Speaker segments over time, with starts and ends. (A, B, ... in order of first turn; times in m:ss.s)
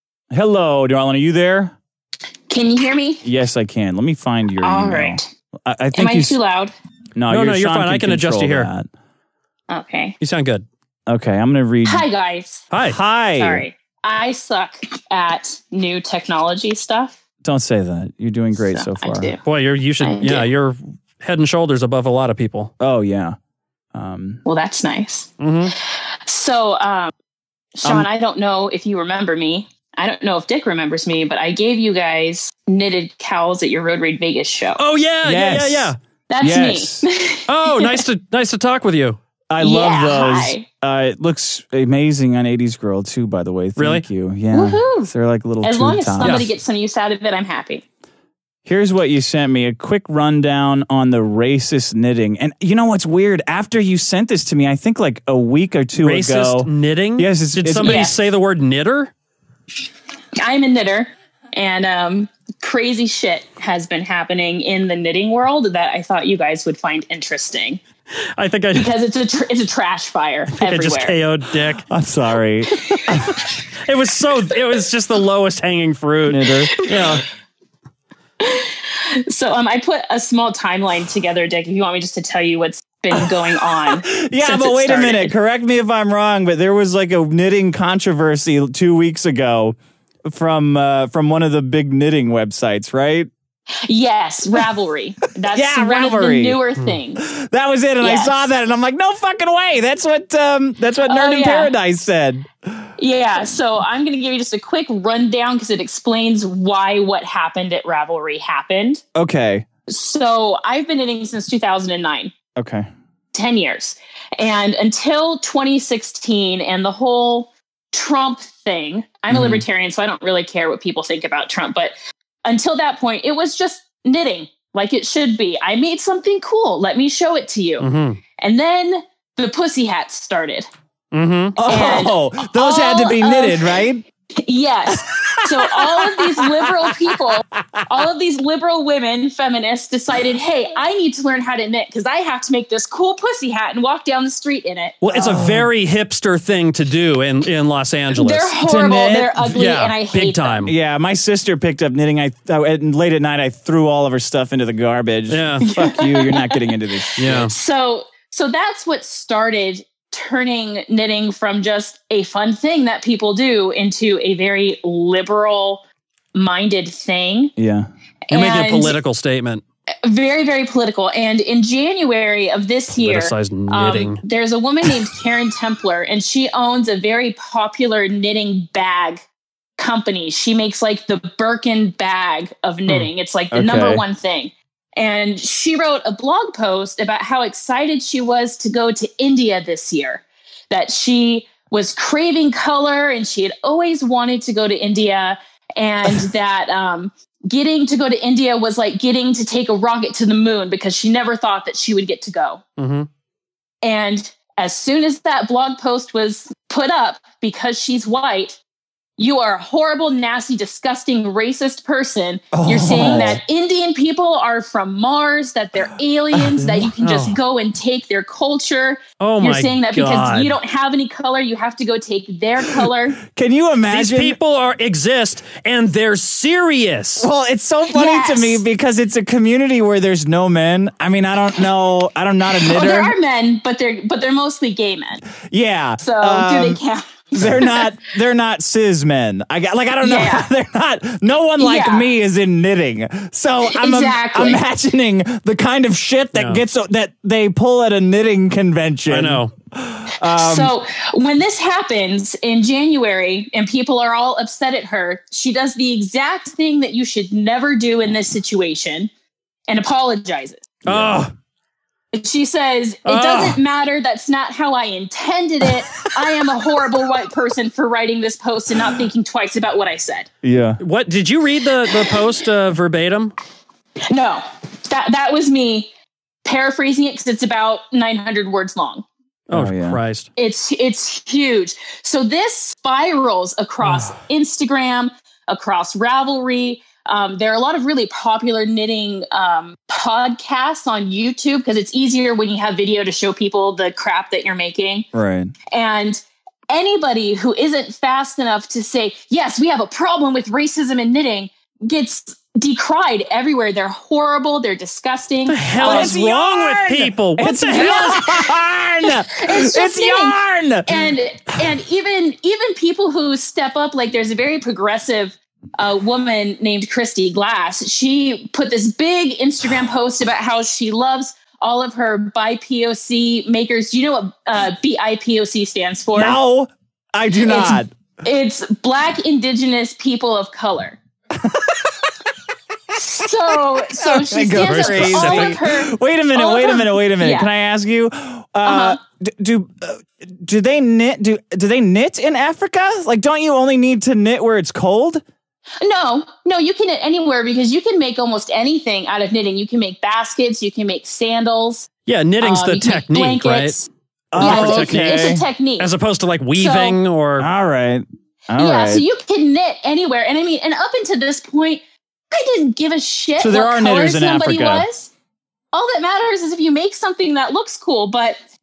0:00.3-0:01.8 A
0:02.5-0:03.2 B
0:03.2-0:06.4 A
0:04.6-0:05.3 B
0:05.9-0:06.7 B
0:07.2-0:08.9 A
0:07.3-0:08.7 C
0:09.7-0:10.2 B
0:10.2-0:10.6 C
0:11.1-0:12.0 A
0:11.8-0:12.7 B
0:12.7-0:13.0 C
0:12.8-0:13.6 A
0:13.4-0:17.2 B
0:17.4-0:19.3 A
0:18.5-0:19.4 B
0:19.4-0:22.7 C
0:20.0-0:20.5 B
0:22.8-0:23.4 A
0:23.9-0:24.4 A
0:24.4-0:25.3 B
0:25.4-0:25.7 C
0:26.2-0:27.1 B
0:27.8-0:34.8 B
0:34.8-0:36.0 C
0:35.2-0:37.0 A
0:36.3-0:38.0 B
0:37.5-0:39.2 C
0:39.5-0:46.4 A
0:39.6-0:40.6 B
0:43.8-0:44.0 C
0:44.5-0:45.1 B
0:45.6-0:47.8 B
0:46.2-0:46.5 C
0:48.6-0:58.1 A
0:56.0-0:59.1 C
0:57.8-0:58.2 B
1:00.4-1:07.8 B
1:08.4-1:08.9 C
1:08.7-1:11.2 B
1:10.5-1:11.9 C
1:11.9-1:13.4 A
1:12.7-1:13.5 B
1:13.8-1:17.2 C
1:16.3-1:16.7 A
1:16.7-1:17.2 B
1:18.4-1:25.3 B
1:23.8-1:29.8 A
1:30.3-1:33.3 A
1:33.8-1:37.2 B
1:35.5-1:36.6 A
1:37.3-1:42.5 A
1:38.0-1:38.5 B
1:41.0-1:41.7 B
1:43.0-1:49.0 B
1:49.1-1:49.6 A
1:49.9-1:52.3 B
1:52.6-1:52.9 A
1:53.3-2:01.9 B
1:59.3-1:59.6 C
2:02.4-2:07.9 B
2:07.8-2:08.2 C
2:08.4-2:10.7 B
2:11.1-2:11.6 C
2:11.6-2:14.0 A
2:11.6-2:13.9 B
2:14.4-2:25.0 B
2:15.1-2:16.7 A
2:25.0-2:28.5 C
2:25.1-2:25.7 A
2:28.1-2:30.7 B
2:28.6-2:29.5 A
2:29.5-2:30.7 C
2:30.6-2:37.5 A
2:35.3-2:35.6 C
2:35.6-2:45.8 B
2:37.2-2:37.5 C
2:46.3-2:47.5 B
2:47.6-2:47.9 A
2:48.3-2:49.0 B
2:48.3-2:49.6 C
2:50.0-2:59.2 B
2:52.9-2:54.2 C
2:59.8-3:22.6 B
3:03.5-3:04.0 A
3:22.8-3:23.1 C
3:23.8-3:28.6 B
3:29.2-3:43.2 B
3:32.5-3:33.4 A
3:36.3-3:36.9 A
3:37.0-3:37.3 C
3:39.2-3:40.5 C
3:42.8-3:44.4 A
3:43.9-3:47.3 C
3:47.2-3:53.1 A
3:47.9-3:48.6 B
3:52.6-3:55.2 B
3:55.4-3:56.8 A
3:56.0-3:57.9 B
3:57.3-4:10.7 A
4:00.0-4:00.5 B
4:01.6-4:02.1 B
4:03.7-4:04.6 B
4:06.3-4:06.6 C
4:09.1-4:09.5 C
4:10.3-4:19.1 B
4:19.7-4:20.8 B
4:20.8-4:21.3 C
4:20.8-4:21.2 A
4:22.1-4:30.3 B
4:23.0-4:23.6 C
4:30.4-4:30.8 A
4:30.8-4:33.3 C
4:34.1-4:35.9 B
4:36.4-4:39.0 B
4:39.5-4:40.3 C
4:39.5-4:40.0 A
4:40.4-4:55.0 B
4:43.8-4:44.1 A
4:55.1-4:55.5 A
4:55.7-5:06.2 B
5:05.5-5:08.2 C
5:05.8-5:11.0 A
5:07.4-5:26.4 B
5:26.1-5:27.9 A
5:27.4-5:31.0 B
5:31.4-5:31.9 A
5:33.0-5:37.5 B
5:33.7-5:45.2 A
5:34.6-5:35.6 C
5:38.6-5:39.0 B
5:45.8-5:51.9 B
5:52.1-5:53.7 C
5:52.4-5:55.9 B
5:54.3-5:55.4 A
5:54.3-5:57.5 C
5:56.5-5:57.0 B
5:57.4-5:59.0 A
5:58.6-6:05.1 B
6:03.4-6:04.8 A
6:05.7-6:08.4 B